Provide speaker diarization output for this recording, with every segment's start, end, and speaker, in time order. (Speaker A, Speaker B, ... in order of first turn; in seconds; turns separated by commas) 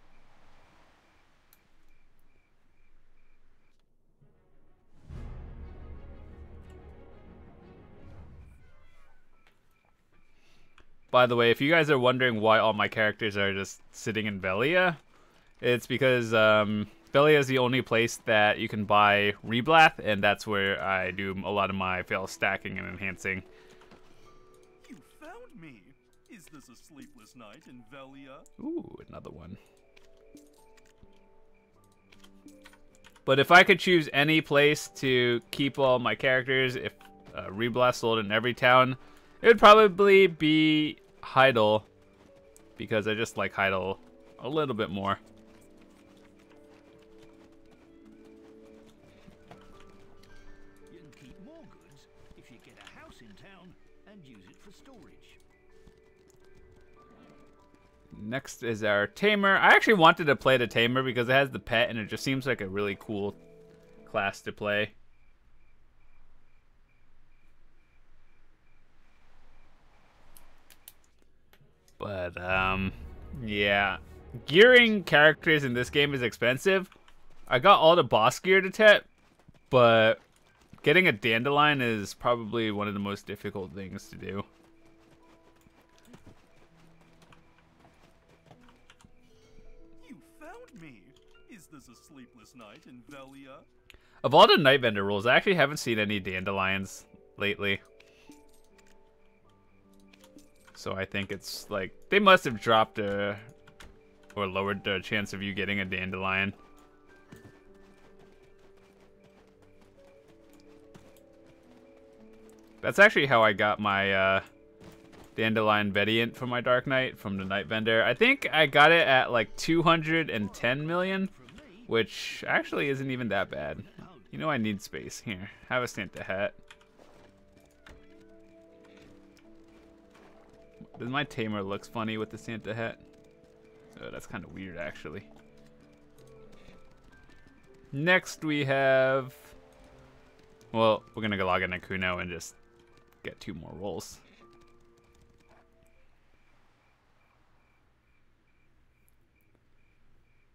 Speaker A: 11.1-15.0, Speaker A: 15.6-23.5, Speaker B: 24.8-28.5, Speaker A: 28.6-29.6, Speaker A: 33.3-41.9, Speaker A: 42.8-45.2, Speaker C: 50.9-55.4, Speaker A: 58.1-63.4, Speaker A: 64.0-64.9, Speaker A: 72.0-76.9, Speaker A: 77.5-79.1, Speaker A: 79.7-80.2, Speaker A: 80.8-84.5, Speaker B: 90.0-93.7, Speaker A: 94.2-97.8, Speaker A: 100.7-103.5, Speaker A: 104.3-106.6, Speaker A: 112.8-114.5, Speaker A: 115.4-121.3, Speaker C: 120.0-124.6, Speaker A: 121.9-126.6, Speaker A: 131.0-133.0, Speaker A: 133.9-135.3, Speaker A: 137.9-139.6, Speaker A: 140.7-142.6, Speaker A: 143.2-144.2